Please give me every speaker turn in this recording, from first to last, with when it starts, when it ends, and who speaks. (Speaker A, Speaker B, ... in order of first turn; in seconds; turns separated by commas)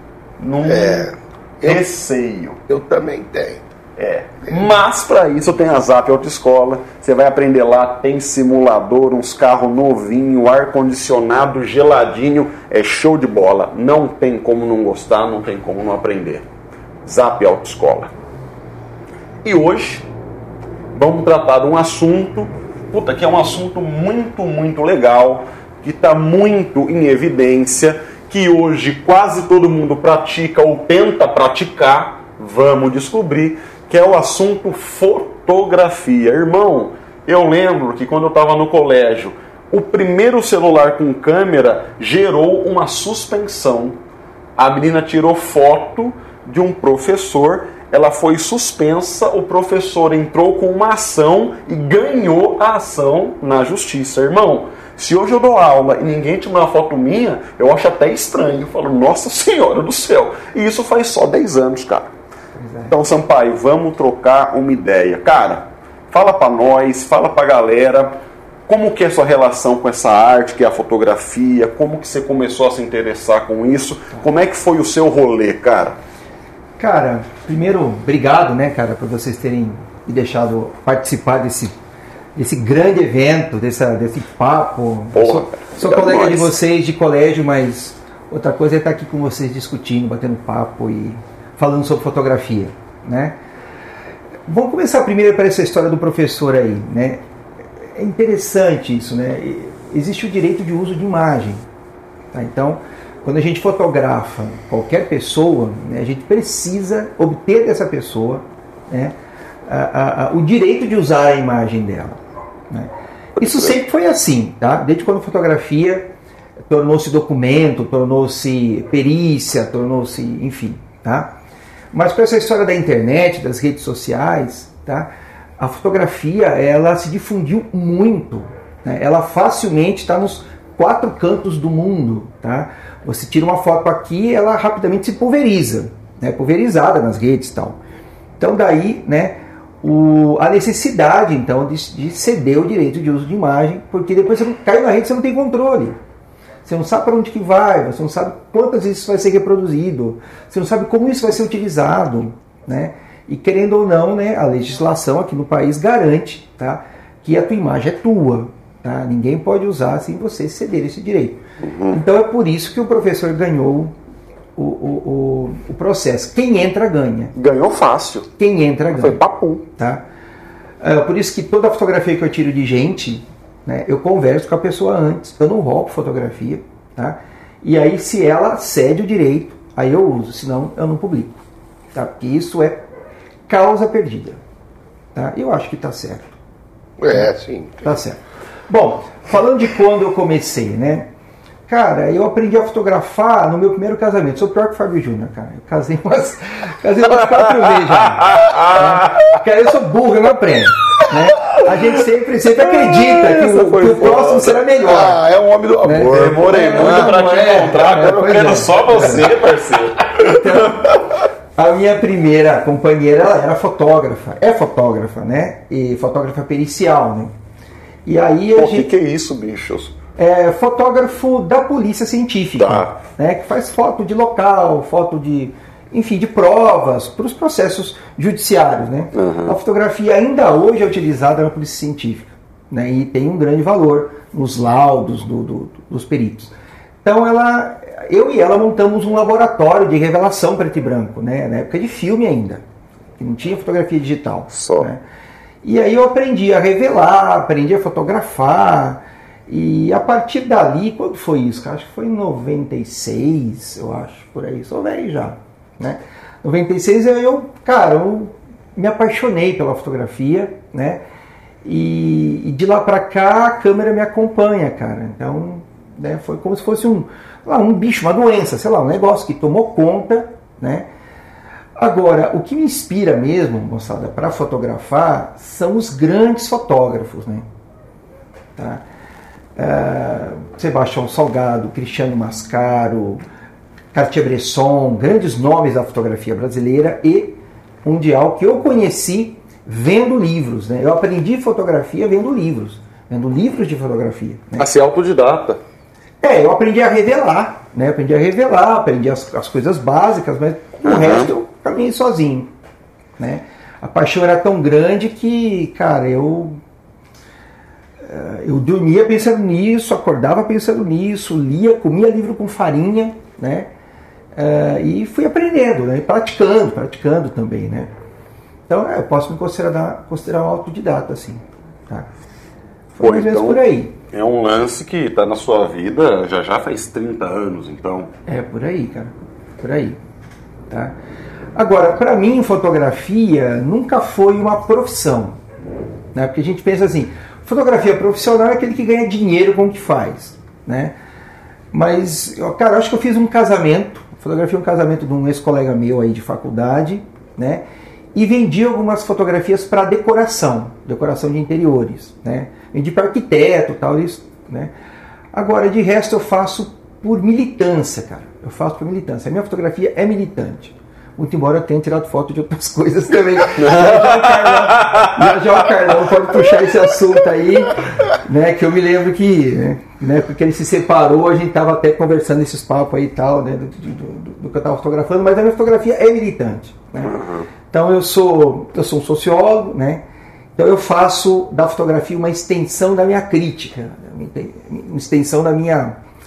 Speaker A: 0.4-1.1, Speaker B: 0.6-1.8, Speaker A: 1.6-2.6, Speaker B: 2.7-3.6, Speaker A: 4.0-16.4, Speaker A: 17.0-18.1, Speaker A: 19.4-20.1, Speaker A: 20.9-44.0, Speaker A: 44.6-62.1, Speaker C: 62.5-62.9, Speaker A: 62.9-68.1, Speaker A: 68.7-76.0, Speaker C: 76.8-81.7, Speaker C: 82.3-93.4, Speaker A: 85.1-86.5, Speaker C: 94.5-97.2, Speaker C: 97.9-101.6, Speaker C: 102.3-109.1, Speaker C: 109.7-112.2, Speaker C: 112.7-116.1, Speaker C: 116.7-121.3, Speaker C: 121.9-137.8, Speaker C: 138.4-146.0, Speaker C: 146.6-163.9, Speaker A: 161.6-162.0, Speaker C: 164.6-167.3, Speaker A: 167.3-168.3, Speaker C: 168.4-170.0, Speaker A: 168.9-169.6, Speaker C: 170.8-181.4, Speaker C: 181.9-182.8, Speaker C: 183.5-184.4, Speaker C: 185.1-186.3, Speaker B: 187.0-187.8, Speaker C: 187.8-191.1, Speaker C: 191.7-205.2, Speaker A: 198.2-199.3, Speaker A: 202.6-204.6, Speaker B: 204.8-207.1, Speaker C: 205.8-209.3, Speaker A: 206.0-211.0, Speaker C: 210.2-211.0, Speaker C: 211.6-217.3, Speaker C: 218.1-218.9, Speaker A: 218.5-219.9, Speaker C: 220.2-242.6, Speaker A: 222.6-222.9, Speaker A: 229.1-229.5, Speaker C: 243.2-245.0, Speaker A: 244.5-244.9, Speaker C: 245.6-261.0, Speaker C: 261.6-270.9, Speaker C: 271.8-277.4, Speaker C: 278.6-278.8, Speaker C: 279.6-283.2, Speaker C: 283.9-294.6, Speaker A: 294.6-295.6, Speaker C: 296.2-302.5, Speaker A: 300.8-301.3, Speaker C: 303.2-306.6, Speaker C: 308.0-313.7, Speaker C: 314.3-317.9, Speaker C: 318.7-322.1, Speaker C: 322.9-323.9, Speaker A: 323.0-328.1, Speaker C: 328.3-330.0, Speaker C: 330.7-330.9, Speaker C: 331.5-335.4, Speaker C: 336.1-340.9, Speaker C: 341.7-347.6, Speaker C: 348.1-354.7, Speaker C: 355.3-380.0, Speaker A: 363.6-365.2, Speaker A: 377.0-377.4, Speaker C: 380.6-386.0